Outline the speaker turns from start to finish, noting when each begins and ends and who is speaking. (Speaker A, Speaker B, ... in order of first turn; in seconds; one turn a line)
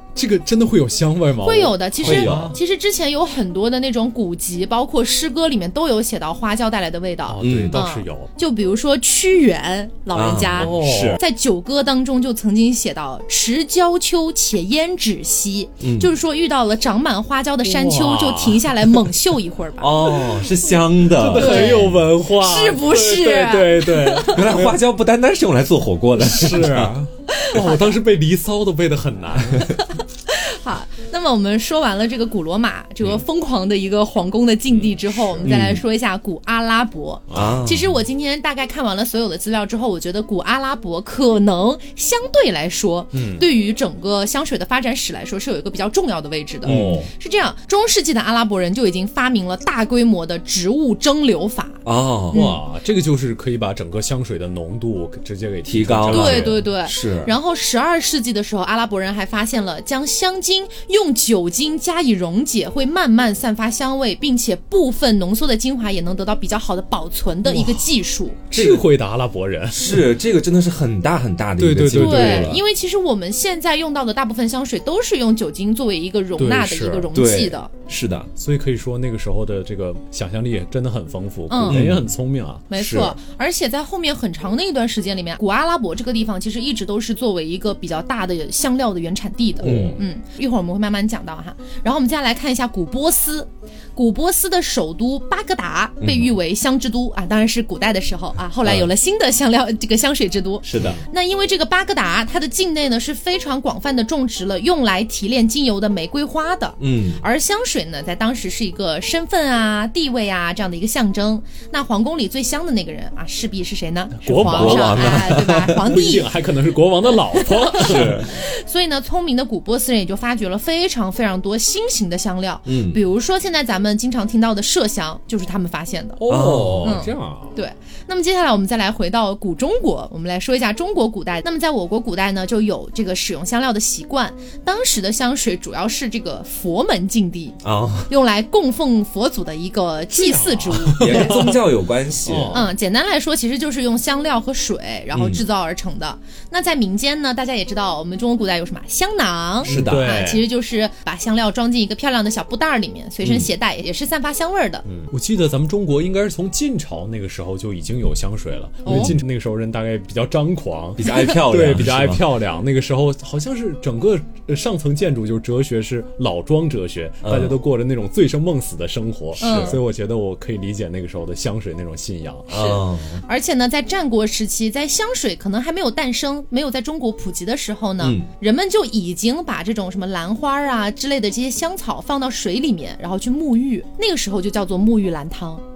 Speaker A: 0.1-2.6
Speaker B: 1.4-20.2
Speaker C: 2.0-2.6
Speaker A: 7.3-8.3
Speaker C: 7.4-7.8
Speaker C: 10.1-11.2
Speaker A: 10.6-11.2
Speaker C: 15.8-16.1
Speaker A: 17.6-19.1
Speaker C: 19.8-22.0
Speaker A: 21.1-24.8
Speaker B: 21.4-24.5
Speaker C: 24.3-27.0
Speaker A: 26.2-29.8
Speaker B: 27.3-28.0
Speaker B: 29.8-52.6
Speaker A: 34.7-35.5
Speaker C: 35.4-35.8
Speaker A: 37.3-37.8
Speaker C: 37.3-37.9
Speaker A: 43.1-43.5
Speaker A: 46.6-47.1
Speaker C: 46.7-47.1
Speaker C: 51.9-52.4
Speaker A: 52.3-56.7
Speaker C: 55.7-57.3
Speaker B: 56.1-68.5
Speaker A: 67.5-67.9
Speaker A: 68.5-70.1
Speaker C: 68.5-68.9
Speaker C: 69.7-72.6
Speaker A: 71.6-72.6
Speaker B: 71.9-77.7
Speaker A: 76.4-77.1
Speaker C: 77.1-78.3
Speaker A: 78.4-82.7
Speaker B: 81.5-81.9
Speaker C: 81.7-82.1
Speaker B: 82.7-116.3
Speaker C: 82.7-83.2
Speaker A: 89.6-90.0
Speaker C: 89.6-90.0
Speaker C: 96.0-96.3
Speaker C: 98.6-98.9
Speaker C: 100.6-101.0
Speaker A: 100.8-101.0
Speaker C: 106.8-107.2
Speaker A: 114.2-118.3
Speaker C: 114.5-115.8
Speaker B: 117.3-126.2
Speaker C: 117.8-118.3
Speaker C: 122.7-123.0
Speaker A: 126.2-127.6
Speaker C: 126.3-127.0
Speaker B: 126.8-141.4
Speaker C: 137.6-138.1
Speaker A: 140.1-141.6
Speaker C: 140.9-142.7
Speaker A: 142.2-142.7
Speaker B: 142.5-154.8
Speaker C: 145.1-145.4
Speaker C: 149.6-150.1
Speaker A: 149.6-150.5
Speaker C: 153.2-153.5
Speaker A: 154.9-172.5
Speaker B: 158.8-159.2
Speaker C: 161.0-162.3
Speaker C: 167.2-167.6
Speaker C: 169.4-169.8
Speaker B: 169.4-169.8
Speaker C: 172.5-173.2
Speaker B: 172.5-185.6
Speaker C: 178.0-178.3